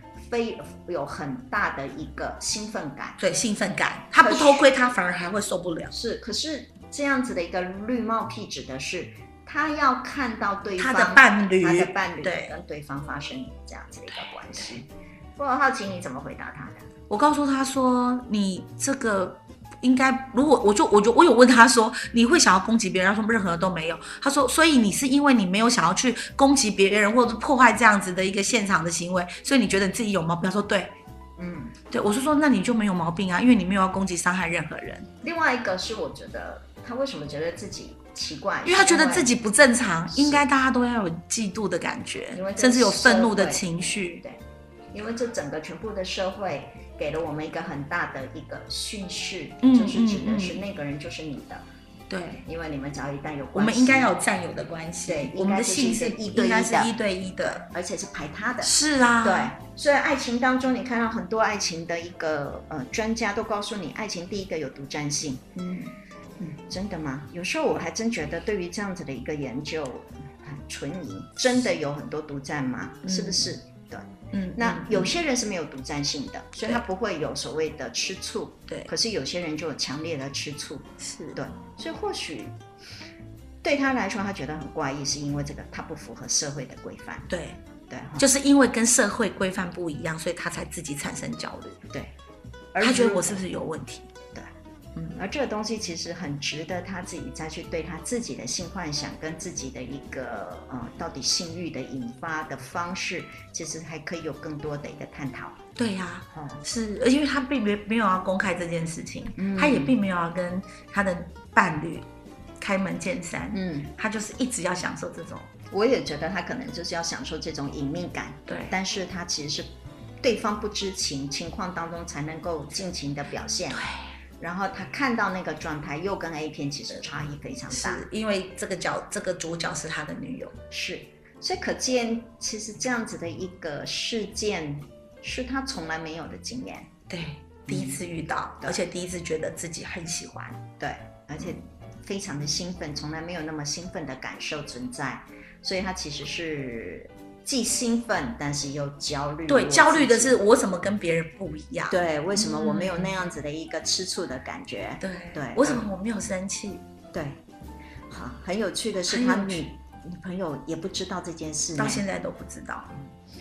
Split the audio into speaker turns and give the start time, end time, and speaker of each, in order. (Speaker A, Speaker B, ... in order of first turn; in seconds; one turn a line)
Speaker A: 0.2-3.2
Speaker B: 3.2-5.9
Speaker A: 4.2-4.7
Speaker A: 5.9-16.8
Speaker B: 10.8-12.5
Speaker B: 14.6-14.8
Speaker B: 17.1-30.9
Speaker A: 31.4-31.8
Speaker B: 31.9-35.1
Speaker A: 35.2-39.3
Speaker B: 38.6-44.2
Speaker A: 40.1-40.4
Speaker A: 42.3-43.6
Speaker A: 44.9-51.6
Speaker B: 49.6-50.6
Speaker B: 52.1-52.5
Speaker A: 52.5-54.1
Speaker B: 53.5-57.7
Speaker A: 55.0-56.9
Speaker A: 57.6-65.5
Speaker B: 58.6-59.6
Speaker B: 65.6-65.9
Speaker A: 66.4-82.6
Speaker B: 73.0-73.5
Speaker B: 74.3-75.2
Speaker B: 81.0-81.4
Speaker A: 83.6-87.3
Speaker B: 87.3-87.6
Speaker A: 87.9-88.3
Speaker B: 88.2-91.8
Speaker A: 92.7-93.5
Speaker B: 92.8-94.1
Speaker A: 95.1-105.6
Speaker B: 105.8-112.1
Speaker A: 106.3-106.6
Speaker A: 109.4-110.0
Speaker B: 112.6-115.5
Speaker A: 113.5-113.9
Speaker A: 115.7-128.0
Speaker B: 118.5-118.8
Speaker B: 127.7-130.6
Speaker A: 130.7-136.9
Speaker B: 137.1-140.6
Speaker A: 137.7-138.0
Speaker A: 140.8-150.4
Speaker B: 149.5-153.2
Speaker A: 151.9-155.9
Speaker B: 155.0-156.8
Speaker A: 157.1-157.4
Speaker A: 158.1-162.0
Speaker B: 159.1-159.7
Speaker B: 161.8-162.9